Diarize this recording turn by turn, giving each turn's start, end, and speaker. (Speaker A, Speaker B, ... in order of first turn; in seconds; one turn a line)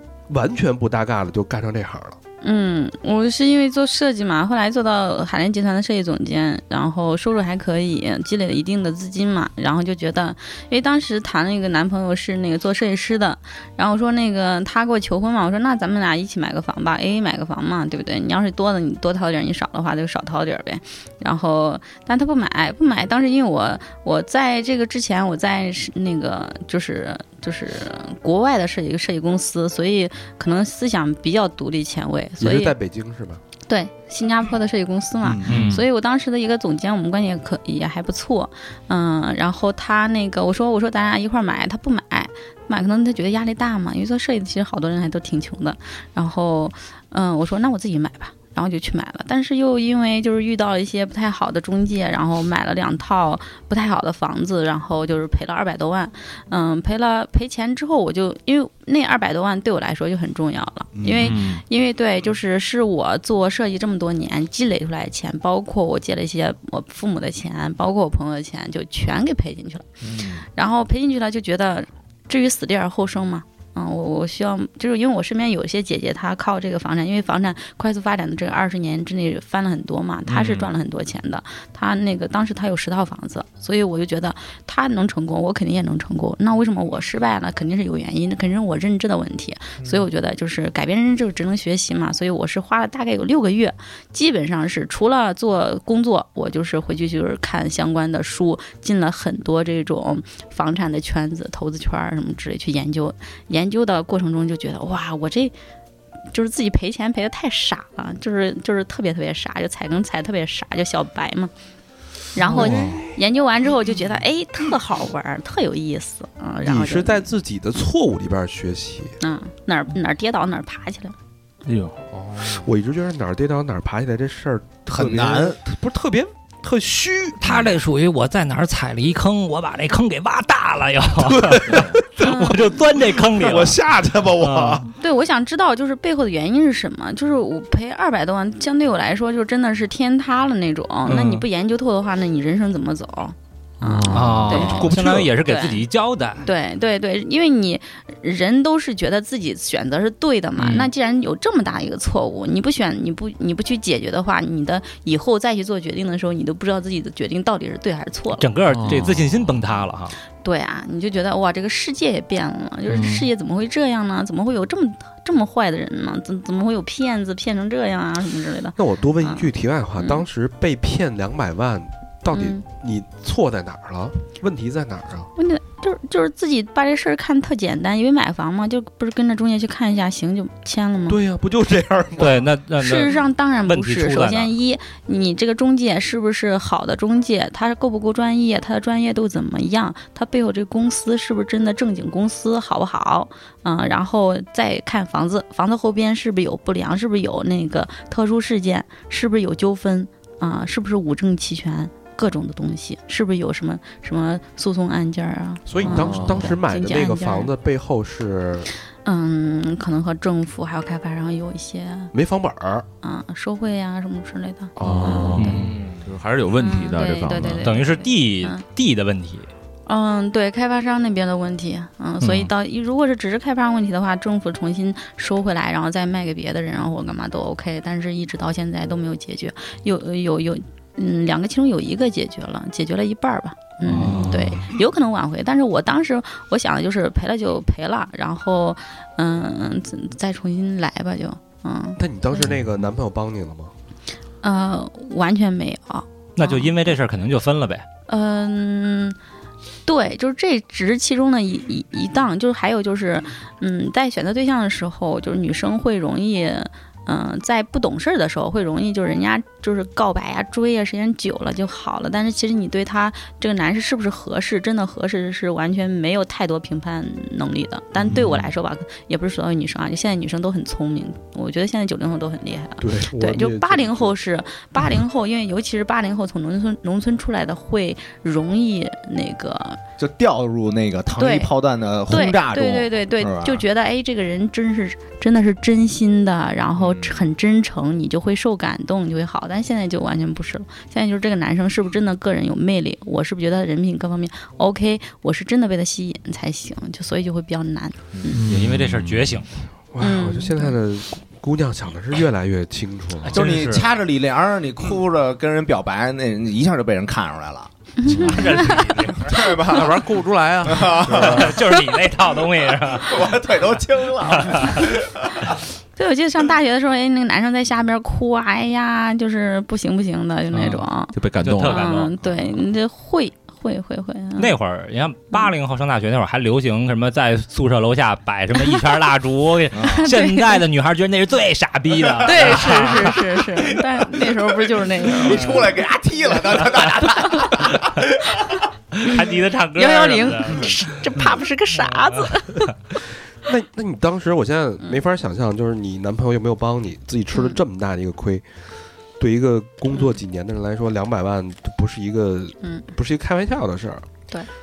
Speaker A: 0.3-2.2
Speaker B: 2.4-32.7
Speaker A: 32.4-33.4
Speaker B: 33.7-105.5
Speaker C: 35.3-35.7
Speaker D: 35.4-35.8
Speaker D: 61.0-61.6
Speaker C: 70.0-70.5
Speaker C: 80.3-80.7
Speaker B: 106.3-111.5
Speaker B: 112.3-117.3
Speaker D: 112.5-113.0
Speaker A: 116.6-119.2
Speaker B: 119.2-121.1
Speaker D: 121.7-122.0
Speaker A: 122.3-127.7
Speaker C: 124.9-125.6
Speaker E: 127.4-133.8
Speaker A: 131.2-134.9
Speaker B: 132.2-132.8
Speaker E: 134.3-134.8
Speaker B: 134.9-144.9
Speaker E: 141.1-141.4
Speaker D: 143.8-144.8
Speaker E: 144.1-146.4
Speaker A: 144.5-145.3
Speaker B: 145.4-145.8
Speaker B: 146.4-158.5
Speaker E: 150.6-150.9
Speaker E: 158.4-160.2
Speaker D: 158.7-159.3
Speaker B: 160.4-169.5
Speaker D: 162.9-163.3
Speaker A: 168.8-175.3
Speaker B: 170.0-170.2
Speaker B: 172.3-172.6
Speaker B: 175.3-181.2
Speaker A: 181.1-182.5
Speaker E: 182.2-184.5
Speaker B: 182.8-207.5
Speaker A: 205.7-208.7
Speaker D: 205.8-206.5
Speaker B: 209.0-212.1
Speaker A: 212.1-212.9
Speaker B: 213.0-215.6
Speaker A: 214.8-215.6
Speaker D: 214.8-217.7
Speaker E: 215.3-215.8
Speaker C: 215.7-216.0
Speaker B: 216.6-218.6
Speaker E: 217.6-219.5
Speaker B: 219.9-242.5
Speaker E: 222.2-222.5
Speaker E: 233.8-234.5
Speaker D: 233.9-234.6
Speaker A: 242.0-243.7
Speaker B: 244.4-246.9
Speaker E: 246.4-247.8
Speaker B: 248.1-249.2
Speaker B: 249.8-279.8
Speaker A: 272.8-274.1
Speaker C: 280.0-283.6
Speaker B: 281.2-281.5
Speaker B: 282.1-298.4
Speaker C: 286.8-287.3
Speaker D: 298.3-299.4
Speaker E: 298.5-299.5
Speaker A: 299.9-303.4
Speaker B: 300.0-300.8
Speaker E: 303.2-303.9
Speaker C: 303.3-310.1
Speaker B: 308.0-308.8
Speaker E: 308.1-309.6
Speaker D: 309.7-311.5
Speaker C: 310.6-311.9
Speaker E: 311.0-313.6
Speaker C: 312.9-315.4
Speaker E: 314.2-314.8
Speaker B: 316.0-324.6
Speaker E: 320.5-320.8
Speaker D: 321.1-321.9
Speaker E: 321.4-322.1
Speaker E: 324.4-333.2
Speaker C: 329.7-330.0
Speaker B: 329.8-330.6
Speaker C: 332.0-338.2
Speaker B: 332.2-335.6
Speaker E: 335.4-335.6
Speaker E: 339.0-340.8
Speaker B: 339.7-342.7
Speaker A: 343.4-348.4
Speaker A: 349.2-354.1